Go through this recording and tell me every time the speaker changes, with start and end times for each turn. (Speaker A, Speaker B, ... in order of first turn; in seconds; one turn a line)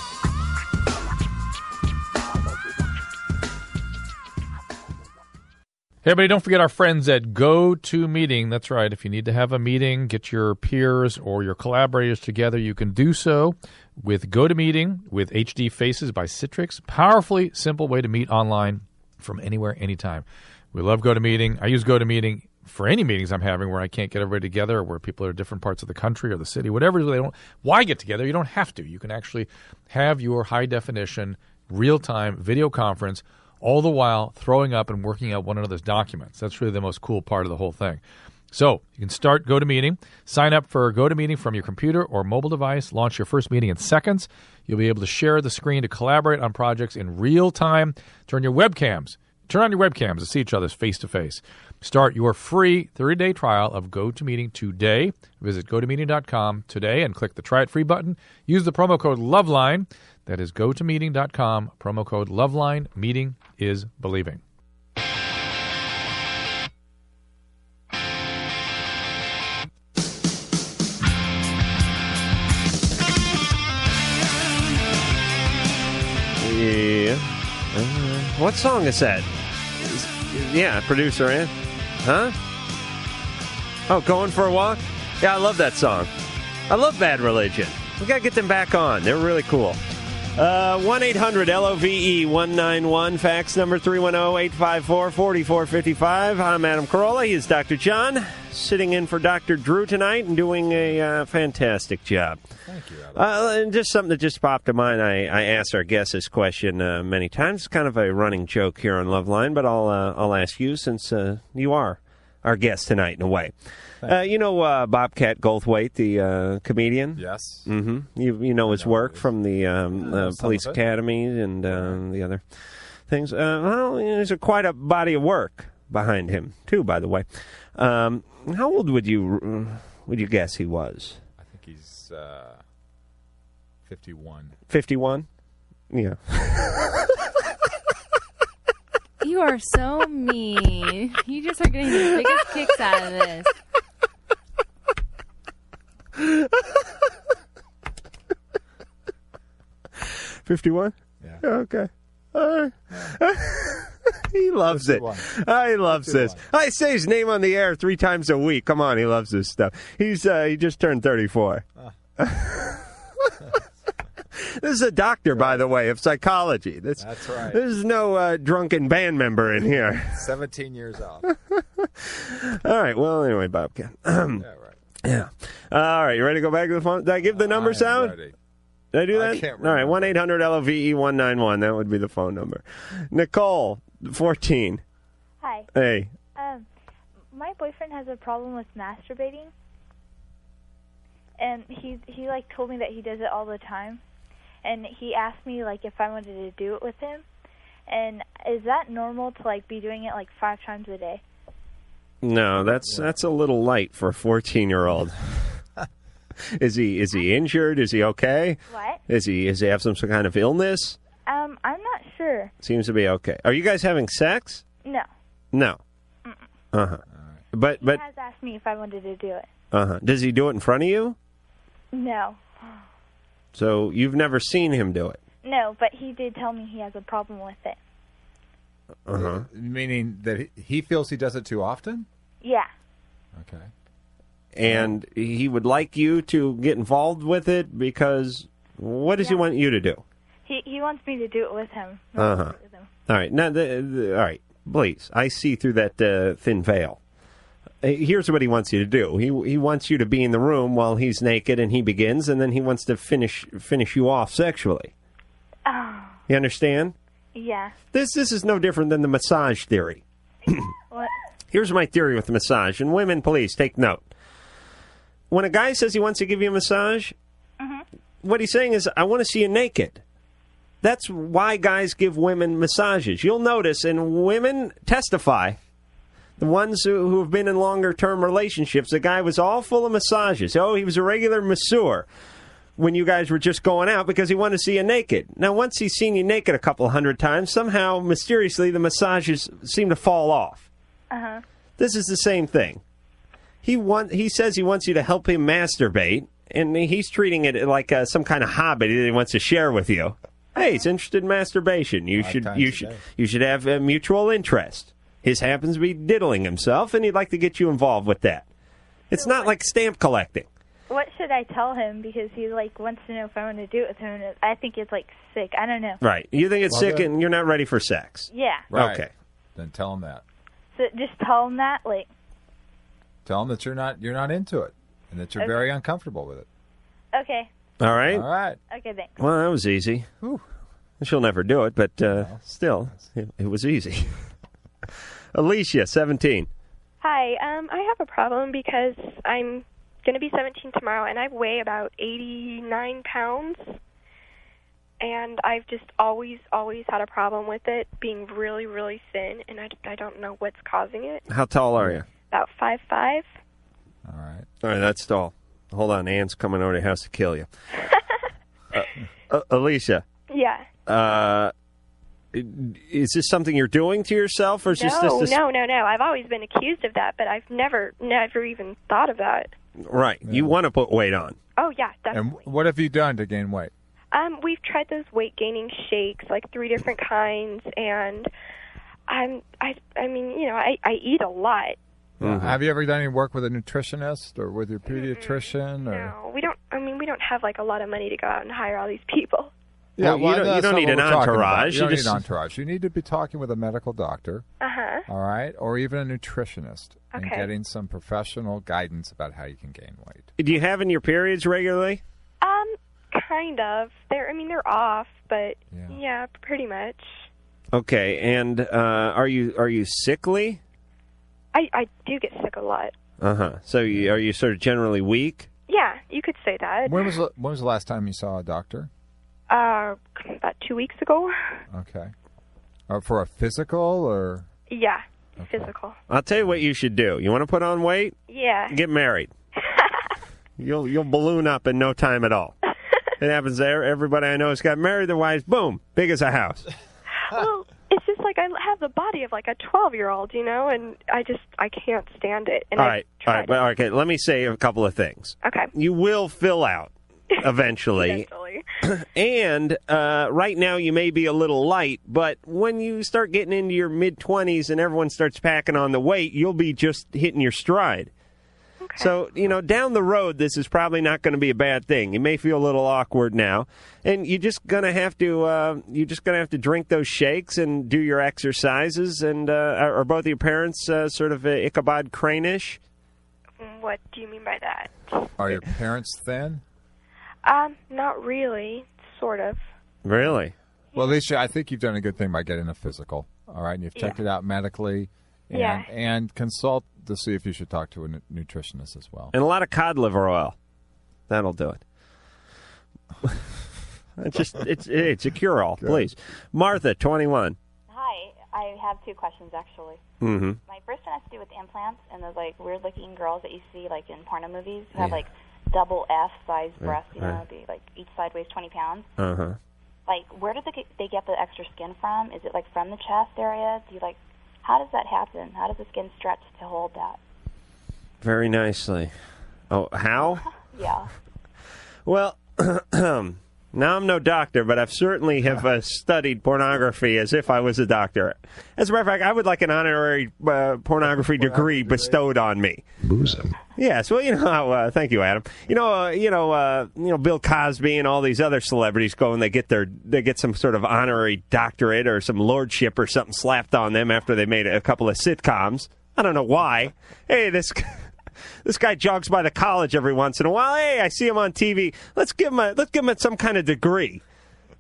Speaker A: 6.0-64.4
Speaker B: 76.4-82.3
Speaker B: 83.9-86.1
Speaker B: 86.7-89.8
Speaker B: 90.3-102.4
Speaker C: 102.6-103.2
Speaker B: 103.1-113.5
Speaker B: 114.0-122.4
Speaker C: 117.1-117.7
Speaker C: 118.6-119.3
Speaker C: 119.9-120.8
Speaker C: 121.7-122.0
Speaker B: 123.1-131.2
Speaker C: 131.4-132.6
Speaker C: 133.8-134.6
Speaker B: 134.7-135.2
Speaker B: 135.9-136.9
Speaker D: 139.2-143.5
Speaker B: 146.2-146.5
Speaker B: 150.0-161.6
Speaker C: 152.9-153.2
Speaker C: 154.7-155.3
Speaker C: 155.9-156.4
Speaker B: 162.2-162.8
Speaker B: 164.5-170.1
Speaker C: 165.3-165.7
Speaker C: 167.0-167.6
Speaker C: 170.0-171.3
Speaker B: 171.5-174.4
Speaker C: 174.3-174.8
Speaker B: 175.0-178.2
Speaker C: 177.2-178.3
Speaker B: 178.9-184.8
Speaker C: 179.1-180.2
Speaker E: 185.4-185.7
Speaker B: 185.7-186.1
Speaker E: 186.3-186.7
Speaker E: 187.3-189.5
Speaker E: 191.4-194.0
Speaker E: 194.6-197.2
Speaker E: 197.9-201.2
Speaker B: 202.2-205.3
Speaker C: 202.5-203.1
Speaker B: 206.6-211.0
Speaker E: 208.7-209.0
Speaker E: 211.2-212.5
Speaker B: 212.6-214.6
Speaker B: 215.5-215.8
Speaker B: 216.7-217.0
Speaker C: 217.1-217.4
Speaker B: 217.5-218.0
Speaker E: 217.8-219.5
Speaker B: 219.7-221.2
Speaker E: 221.9-222.7
Speaker B: 223.5-225.2
Speaker E: 225.4-227.8
Speaker B: 229.1-229.4
Speaker C: 229.1-232.1
Speaker E: 232.4-232.7
Speaker C: 233.3-233.7
Speaker B: 234.5-240.0
Speaker C: 234.6-235.0
Speaker E: 239.1-239.5
Speaker E: 240.4-242.9
Speaker B: 242.2-242.6
Speaker B: 243.1-247.0
Speaker B: 247.8-254.9
Speaker E: 255.6-256.2
Speaker B: 256.3-256.9
Speaker E: 257.3-257.7
Speaker B: 257.9-260.7
Speaker B: 261.5-264.0
Speaker B: 265.3-267.1
Speaker B: 268.2-270.0
Speaker B: 270.8-275.6
Speaker B: 276.4-282.1
Speaker B: 282.8-290.7
Speaker E: 291.1-291.4
Speaker B: 291.8-292.8
Speaker B: 293.6-308.4
Speaker E: 300.6-300.8
Speaker C: 302.1-303.0
Speaker B: 309.1-310.5
Speaker F: 309.1-309.5
Speaker E: 310.9-316.0
Speaker B: 316.0-319.1
Speaker C: 316.7-317.1
Speaker E: 318.3-318.7
Speaker C: 318.7-320.2
Speaker E: 320.7-322.1
Speaker C: 323.2-326.5
Speaker E: 325.4-325.7
Speaker E: 327.1-327.5
Speaker B: 327.8-328.2
Speaker C: 328.1-328.6
Speaker E: 328.7-329.1
Speaker B: 329.2-330.1
Speaker B: 331.0-334.1
Speaker C: 332.1-333.0
Speaker B: 335.3-336.5
Speaker F: 337.0-343.8
Speaker F: 345.0-351.2
Speaker B: 351.3-352.1
Speaker F: 352.3-353.2
Speaker C: 354.0-354.5
Speaker B: 354.6-357.5
Speaker B: 358.7-360.0
Speaker F: 360.3-360.7
Speaker B: 360.9-361.5
Speaker B: 362.3-365.4
Speaker F: 364.6-369.5
Speaker B: 369.9-371.4
Speaker C: 370.2-370.5
Speaker F: 371.6-372.4
Speaker C: 372.1-373.7
Speaker F: 374.1-378.3
Speaker F: 379.1-381.8
Speaker B: 382.2-382.6
Speaker C: 382.2-386.1
Speaker F: 384.9-389.5
Speaker C: 390.0-394.4
Speaker B: 390.0-392.2
Speaker F: 394.6-395.0
Speaker C: 395.1-400.3
Speaker F: 397.1-397.5
Speaker B: 400.4-402.0
Speaker F: 402.4-407.2
Speaker C: 405.7-406.0
Speaker B: 407.7-410.6
Speaker F: 411.5-412.9
Speaker B: 413.2-415.5
Speaker C: 413.9-414.2
Speaker F: 415.7-417.1
Speaker C: 416.8-418.9
Speaker F: 419.5-421.3
Speaker C: 421.7-422.1
Speaker C: 422.9-424.5
Speaker F: 424.7-425.9
Speaker C: 425.4-425.7
Speaker B: 426.1-428.1
Speaker F: 428.3-428.8
Speaker B: 428.7-429.3
Speaker B: 430.6-432.6
Speaker B: 433.2-436.6
Speaker F: 437.2-443.6
Speaker B: 442.8-448.3
Speaker F: 445.4-445.7
Speaker F: 448.0-448.6
Speaker B: 448.9-458.1
Speaker F: 458.8-459.1
Speaker B: 458.9-472.8
Speaker F: 473.6-475.1
Speaker C: 475.4-476.6
Speaker F: 477.4-479.6
Speaker B: 480.0-480.5
Speaker C: 480.9-489.3
Speaker F: 485.5-485.9
Speaker B: 489.3-490.5
Speaker B: 491.3-491.8
Speaker B: 494.2-497.6
Speaker C: 495.8-496.1
Speaker G: 498.9-499.8
Speaker B: 500.2-500.6
Speaker G: 500.9-504.9
Speaker G: 505.8-506.6
Speaker B: 506.8-507.4
Speaker G: 507.6-509.0
Speaker B: 509.2-509.6
Speaker G: 510.1-514.1
Speaker G: 514.7-516.7
Speaker B: 518.2-519.1
Speaker B: 519.7-520.5
Speaker B: 522.0-532.8
Speaker C: 531.2-532.2
Speaker C: 533.2-533.5
Speaker B: 533.8-548.1
Speaker B: 548.6-554.2